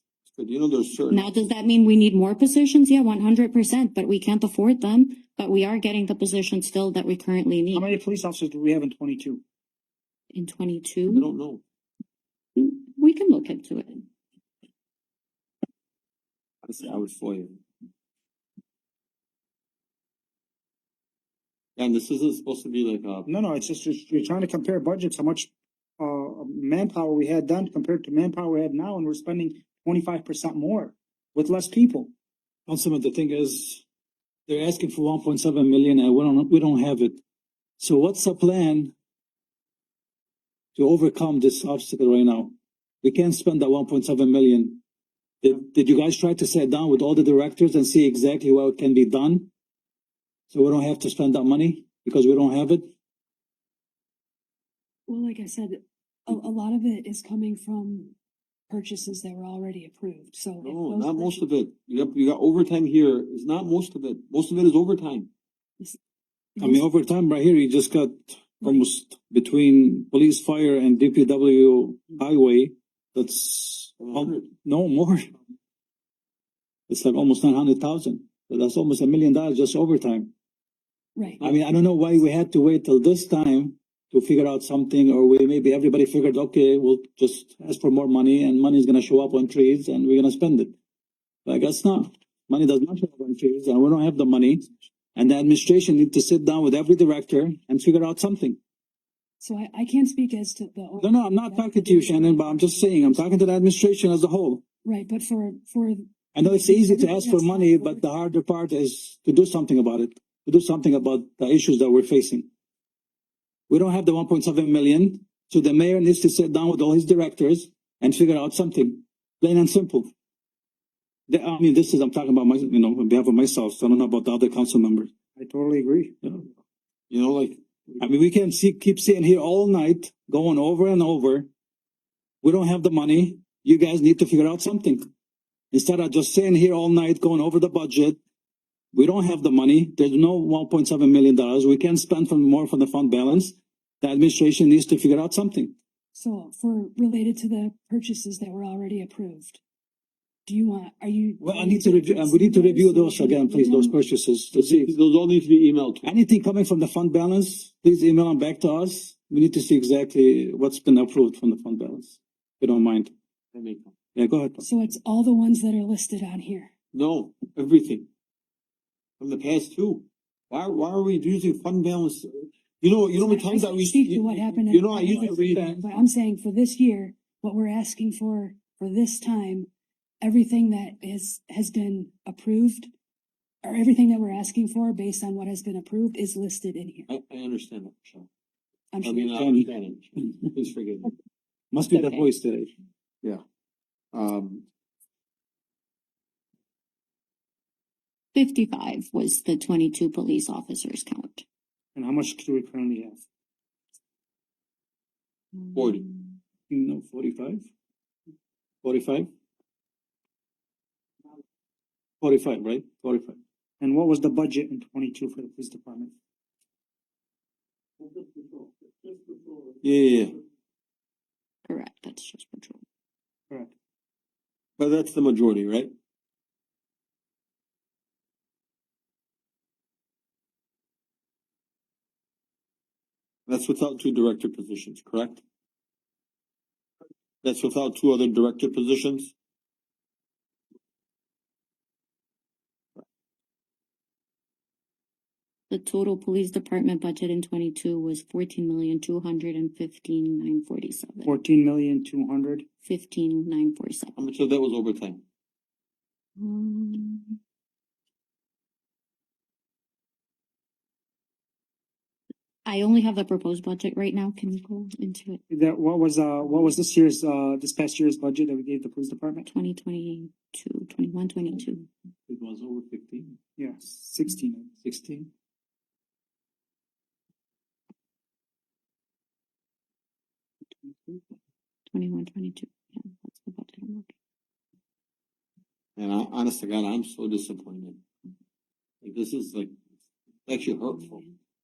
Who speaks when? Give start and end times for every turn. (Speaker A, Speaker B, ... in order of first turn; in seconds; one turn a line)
Speaker A: 0.2-1.3
Speaker B: 1.1-7.9
Speaker C: 7.7-9.4
Speaker B: 10.3-11.3
Speaker A: 11.1-11.6
Speaker B: 12.6-14.0
Speaker A: 16.6-17.6
Speaker A: 21.8-23.3
Speaker C: 23.2-32.1
Speaker D: 32.7-33.8
Speaker D: 34.5-37.2
Speaker D: 37.8-38.9
Speaker D: 40.7-44.8
Speaker D: 45.4-49.5
Speaker D: 50.5-52.9
Speaker E: 55.1-58.2
Speaker E: 58.7-61.5
Speaker A: 60.6-65.3
Speaker E: 66.6-66.8
Speaker D: 66.6-75.3
Speaker A: 74.0-74.5
Speaker D: 76.9-80.3
Speaker E: 81.2-81.4
Speaker D: 81.4-90.7
Speaker D: 91.5-98.6
Speaker E: 99.4-103.3
Speaker D: 101.0-104.6
Speaker E: 104.8-108.0
Speaker D: 106.3-112.5
Speaker D: 113.7-120.1
Speaker D: 121.3-125.1
Speaker C: 125.4-126.1
Speaker A: 127.1-128.0
Speaker D: 128.0-131.5
Speaker D: 132.4-135.1
Speaker D: 135.7-138.2
Speaker D: 138.9-145.7
Speaker E: 146.1-149.6
Speaker E: 150.5-154.0
Speaker D: 151.4-154.9
Speaker A: 154.5-156.1
Speaker D: 156.0-163.1
Speaker A: 163.5-163.9
Speaker D: 164.2-164.6
Speaker E: 164.6-166.7
Speaker A: 166.9-168.1
Speaker A: 169.2-175.7
Speaker E: 173.2-179.7
Speaker D: 175.0-175.9
Speaker E: 180.2-182.9
Speaker E: 183.6-187.1
Speaker A: 187.1-188.3
Speaker E: 188.9-189.3
Speaker A: 189.0-191.1
Speaker D: 189.3-189.7
Speaker D: 191.7-192.7
Speaker E: 191.9-192.2
Speaker A: 194.1-194.6
Speaker B: 198.3-201.4
Speaker C: 202.0-203.2
Speaker B: 205.6-206.4
Speaker A: 205.7-206.0
Speaker D: 206.7-207.7
Speaker D: 208.8-209.3
Speaker D: 212.2-213.4
Speaker C: 213.8-216.1
Speaker A: 219.8-220.4
Speaker B: 221.7-222.8
Speaker A: 224.8-225.9
Speaker A: 233.5-235.4
Speaker A: 237.4-239.3
Speaker B: 245.7-251.3
Speaker C: 251.2-252.7
Speaker B: 252.8-254.2
Speaker A: 254.2-255.2
Speaker B: 256.4-257.4
Speaker B: 262.6-265.4
Speaker C: 265.5-269.5
Speaker B: 269.4-271.9
Speaker D: 272.3-273.4
Speaker C: 273.6-274.7
Speaker D: 274.8-275.3
Speaker B: 281.9-284.1
Speaker A: 286.0-288.0
Speaker A: 289.0-289.7
Speaker A: 290.5-291.2